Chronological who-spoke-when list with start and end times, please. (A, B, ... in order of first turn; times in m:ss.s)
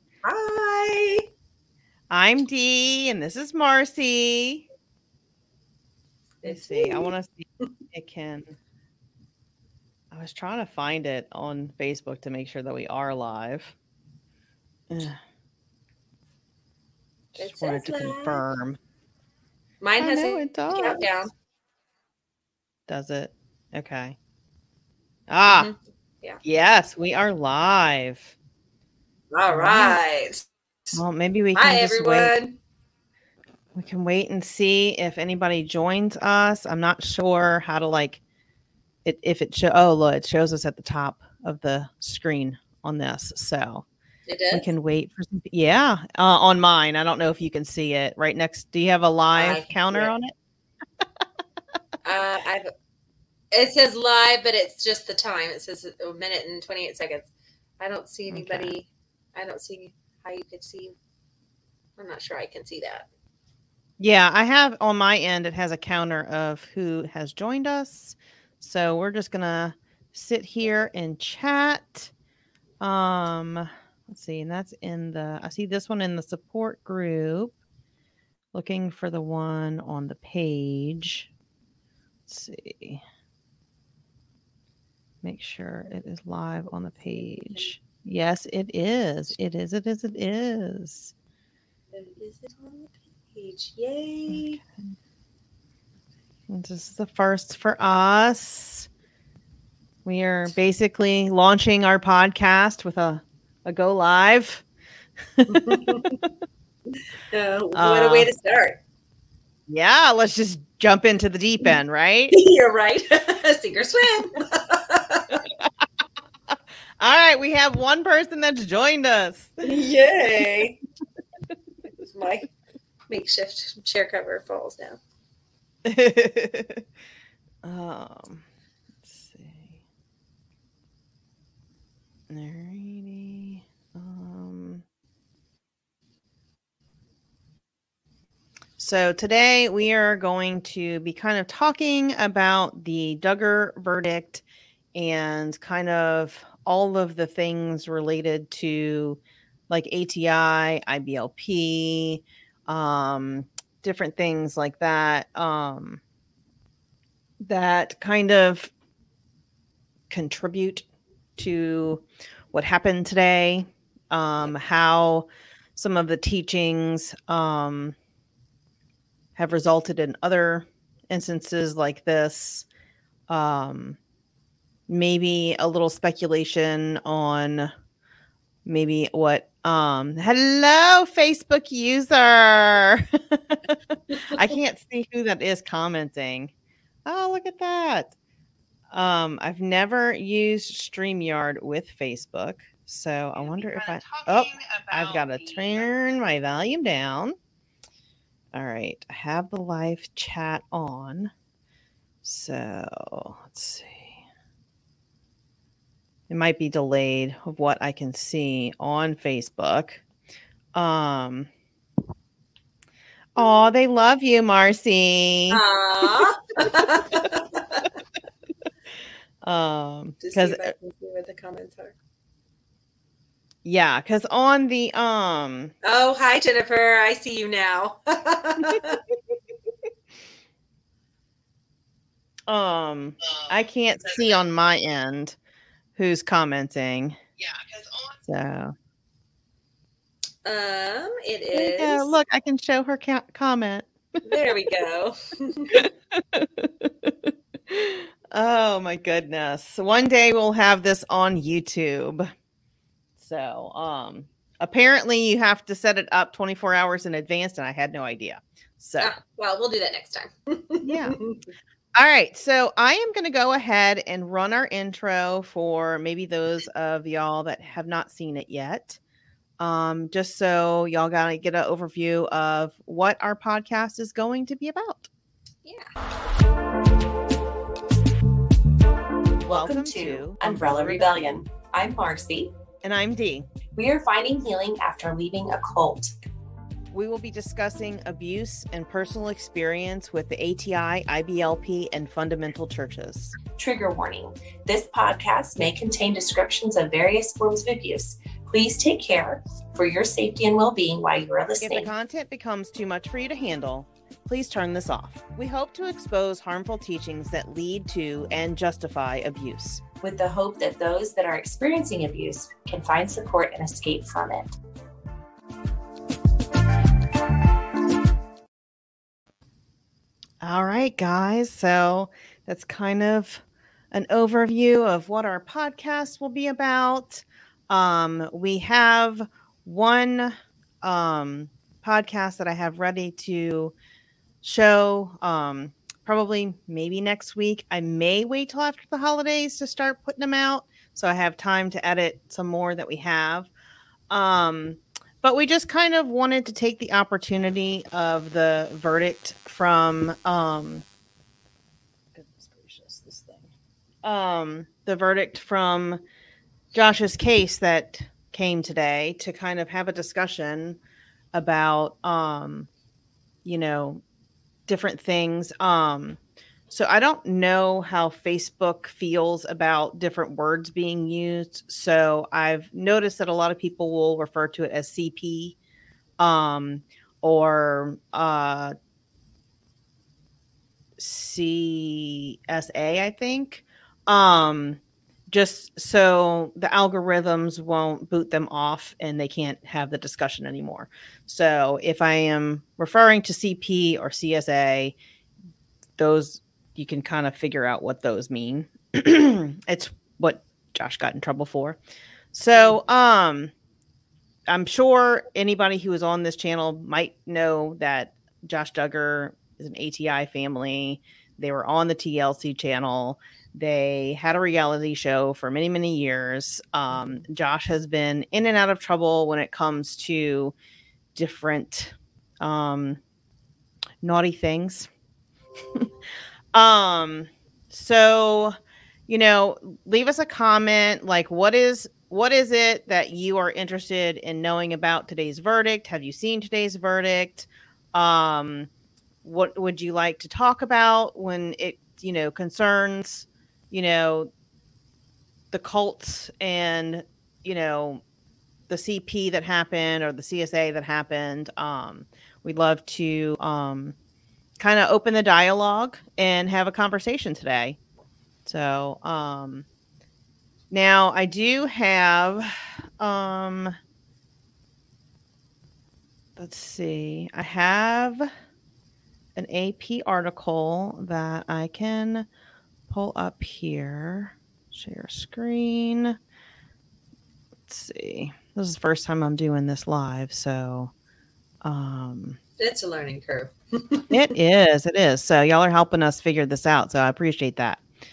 0:00.2-0:01.3 A
0:02.1-0:04.7 B
0:06.4-0:07.7 A
0:06.4-0:08.5 B
0:10.1-0:13.7 B
0:14.9-0:15.2 B
0:17.3-0:18.8 B
0:17.4-0:18.4 A
0:19.8-0:21.3 A
0:20.0-0:21.1 B
0:22.9-0:24.2 B
0:25.3-0:25.7 B
0:25.5-0:26.4 A
0:26.4-0:28.3 B
0:29.3-0:31.0 A
0:29.5-0:30.0 B
0:30.9-0:32.3 B
0:31.6-0:32.6 A
0:33.7-0:38.2 B
0:39.0-0:43.9 B
0:44.3-0:44.7 A
0:44.5-0:50.3 B
0:49.3-0:50.2 A
0:52.0-0:52.7 A
0:53.5-0:57.3 A
0:57.8-1:01.0 A
0:58.3-0:58.7 B
1:02.0-1:03.1 A
1:04.0-1:12.1 B
1:12.8-1:17.6 B
1:18.5-1:21.3 B
1:22.3-1:23.0 B
1:25.2-1:31.1 B
1:27.2-1:27.7 A
1:31.9-1:34.6 A
1:34.3-1:34.7 B
1:36.5-1:38.9 B
1:40.0-1:44.6 B
1:45.4-1:46.2 B
1:45.5-1:46.2 A
1:47.3-1:48.8 A
1:47.7-1:48.3 B
1:49.7-1:52.4 B
1:52.3-1:55.4 A
1:57.0-1:59.6 B
1:59.6-2:00.8 A
2:01.9-2:02.5 A
2:03.1-2:05.0 A
2:05.8-2:06.8 B
2:07.6-2:08.4 B
2:09.0-2:09.8 B
2:12.3-2:14.8 B
2:18.8-2:24.4 B
2:24.9-2:36.0 B
2:37.4-2:38.7 B
2:40.1-2:40.8 B
2:41.4-2:48.0 B
2:49.4-2:52.7 B
2:53.3-2:54.0 B
2:54.9-2:57.7 B
2:58.6-3:06.5 B
3:07.1-3:08.1 B
3:08.9-3:17.4 B
3:18.5-3:21.3 B
3:22.2-3:24.1 B
3:26.3-3:30.0 B
3:30.7-3:31.5 B
3:33.4-3:35.6 B
3:35.5-3:37.9 A
3:39.4-3:40.7 B
3:40.2-3:42.0 A
3:43.6-3:45.7 B
3:45.8-3:49.0 A
3:48.6-3:49.0 B
3:52.5-3:55.4 B
3:56.0-3:58.7 B
4:00.4-4:02.2 A
4:01.5-4:03.9 B
4:04.2-4:05.9 A
4:05.7-4:12.3 B
4:13.2-4:19.1 B
4:19.0-4:21.4 A
4:20.8-4:21.2 B
4:22.0-4:29.0 B
4:29.6-4:35.1 B
4:35.6-4:35.9 A
4:39.4-4:42.5 C
4:39.5-4:41.3 B
4:42.8-4:43.5 B
4:43.8-4:46.1 C
4:46.9-4:53.4 B
4:53.4-5:01.9 C
5:01.6-5:09.8 B
5:10.0-5:14.5 C
5:20.4-5:33.8 B
5:34.4-5:43.5 B
5:44.1-5:50.8 B
5:52.2-5:53.5 B
5:54.0-5:56.0 B
5:56.7-6:00.8 B
6:01.3-6:02.7 B
6:03.4-6:04.0 B
6:04.7-6:06.2 B
6:06.7-6:15.6 B
6:16.2-6:18.7 B
6:21.0-6:35.0 B
6:36.0-6:41.8 B
6:42.3-6:43.5 B
6:44.5-7:00.6 B
6:56.9-6:57.2 A
7:01.2-7:03.0 B
7:04.0-7:04.9 B
7:06.5-7:08.6 B
7:09.1-7:18.7 B
7:19.2-7:24.3 B
7:25.5-7:28.0 B
7:28.7-7:34.0 B
7:34.6-7:37.8 B
7:38.5-7:39.7 B
7:40.7-7:43.8 B
7:46.4-7:48.3 B
7:49.4-7:52.3 B
7:52.9-7:56.2 B
7:57.7-8:00.9 B
8:01.6-8:02.4 B
8:02.6-8:04.2 A
8:04.1-8:07.8 B